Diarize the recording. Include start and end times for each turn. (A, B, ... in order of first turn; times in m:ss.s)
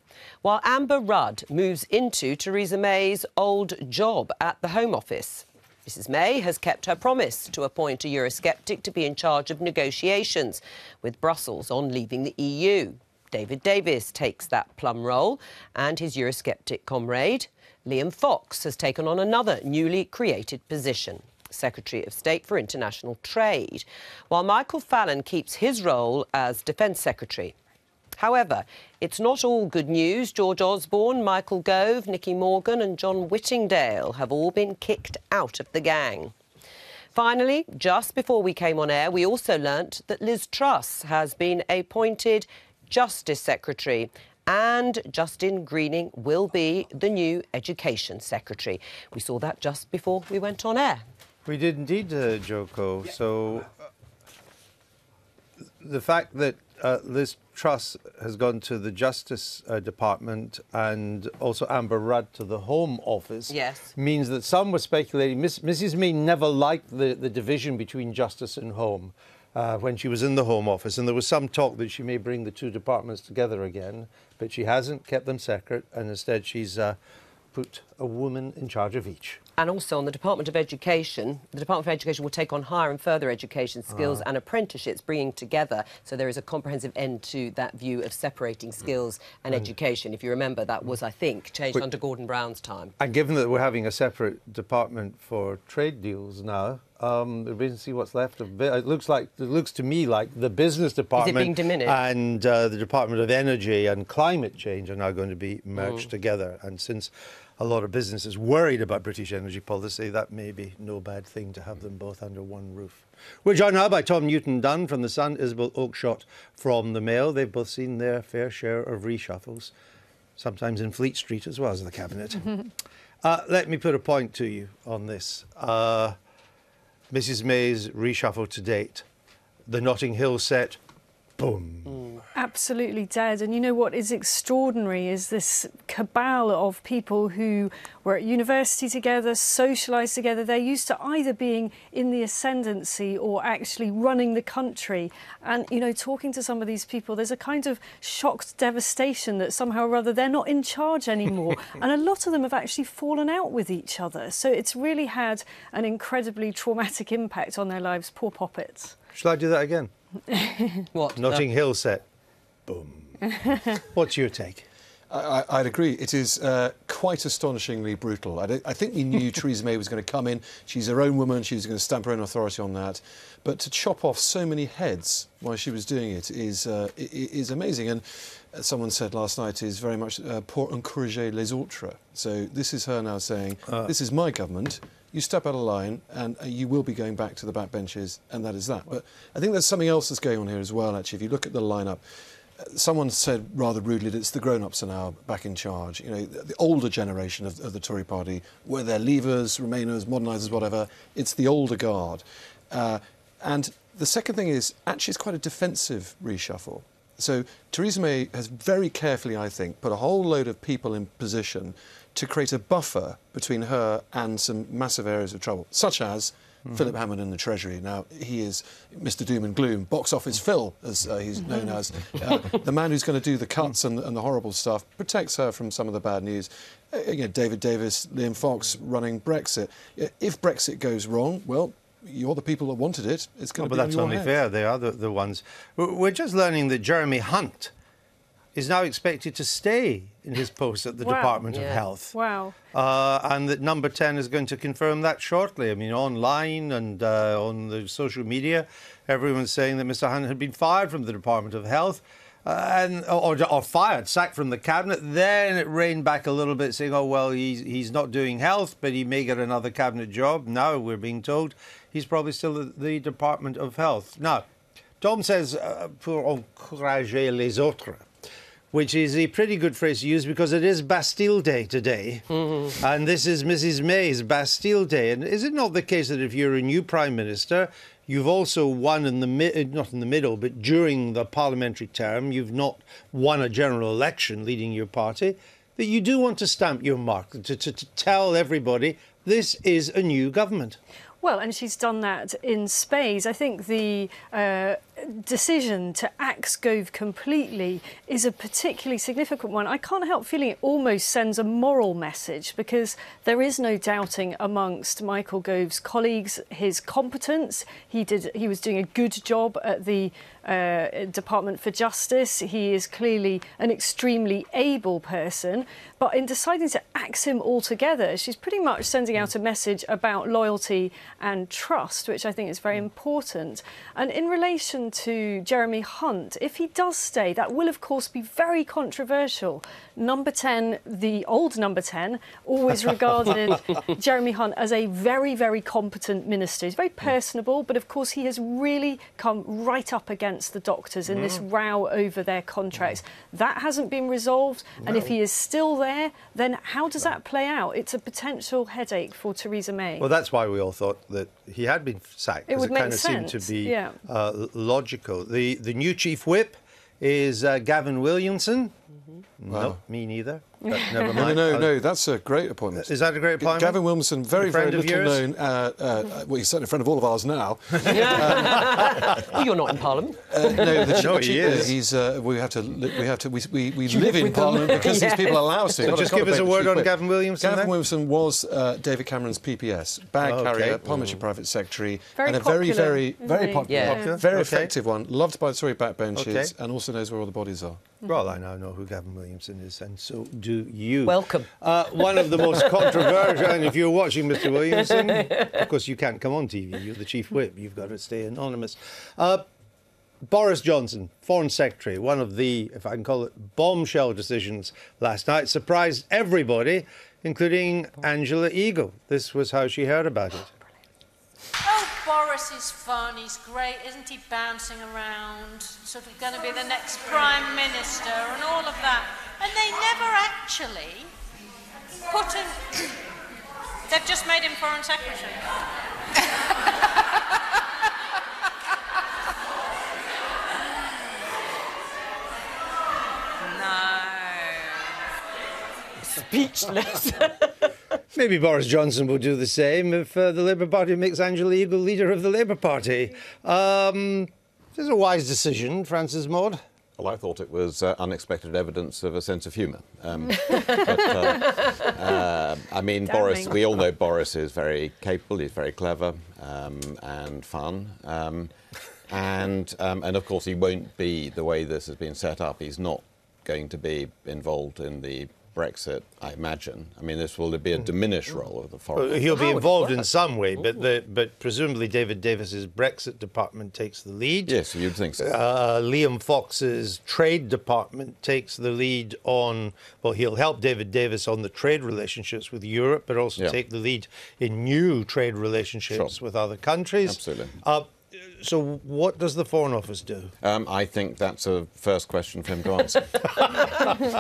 0:00.4-0:27.6 A
0:28.2-0:36.3 A
0:37.1-0:51.0 A
0:51.5-0:53.7 B
0:55.8-1:17.0 B
1:03.5-1:03.9 A
1:17.5-1:19.4 B
1:19.6-1:32.9 A
1:23.9-1:24.2 B
1:33.0-1:59.7 B
1:41.2-1:42.0 A
1:45.8-1:46.1 A
2:00.4-2:02.5 B
2:03.2-2:06.2 B
2:07.1-2:09.0 B
2:09.7-2:10.8 B
2:11.4-2:12.2 B
2:12.4-2:39.0 C
2:39.1-2:39.9 B
2:40.3-2:40.9 C
2:40.9-2:41.5 A
2:41.2-2:42.0 B
2:42.7-2:44.6 B
2:45.1-3:12.0 D
3:12.6-3:54.4 D
3:36.7-3:36.9 B
3:53.6-3:57.7 B
3:58.6-4:02.1 B
4:01.0-4:02.6 C
4:01.5-4:01.8 A
4:02.7-4:24.4 B
4:25.0-4:28.1 B
4:28.7-4:50.8 B
4:32.4-4:32.7 A
4:51.2-5:50.1 C
5:41.1-5:41.4 B
5:44.8-5:45.1 B
5:50.0-5:58.7 B
5:52.5-5:54.0 C
5:59.4-6:01.7 B
5:59.5-5:59.8 D
6:00.6-6:01.1 C
6:01.1-6:09.2 D
6:02.8-6:03.8 B
6:04.3-6:05.2 B
6:07.9-6:09.2 B
6:07.9-6:11.1 A
6:10.3-6:27.8 D
6:10.7-6:11.8 B
6:13.9-6:16.1 A
6:15.8-6:17.7 B
6:20.2-6:20.8 B
6:22.2-6:24.2 C
6:23.7-6:24.0 A
6:23.7-6:24.7 B
6:26.2-6:26.5 B
6:28.1-6:39.4 B
6:31.0-6:33.1 A
6:35.2-6:35.5 A
6:40.3-6:50.5 B
6:51.6-7:01.1 E
7:02.1-7:03.0 E
7:03.9-7:05.5 E
7:13.7-7:14.1 E
7:16.0-7:17.7 A
7:18.1-7:26.6 B
7:27.0-7:38.5 F
7:30.5-7:31.4 C
7:33.1-7:33.6 C
7:39.1-7:50.0 F
7:49.0-7:54.6 B
7:54.5-7:55.3 F
7:55.2-8:10.3 B
8:07.0-8:07.6 F
8:10.4-8:14.0 F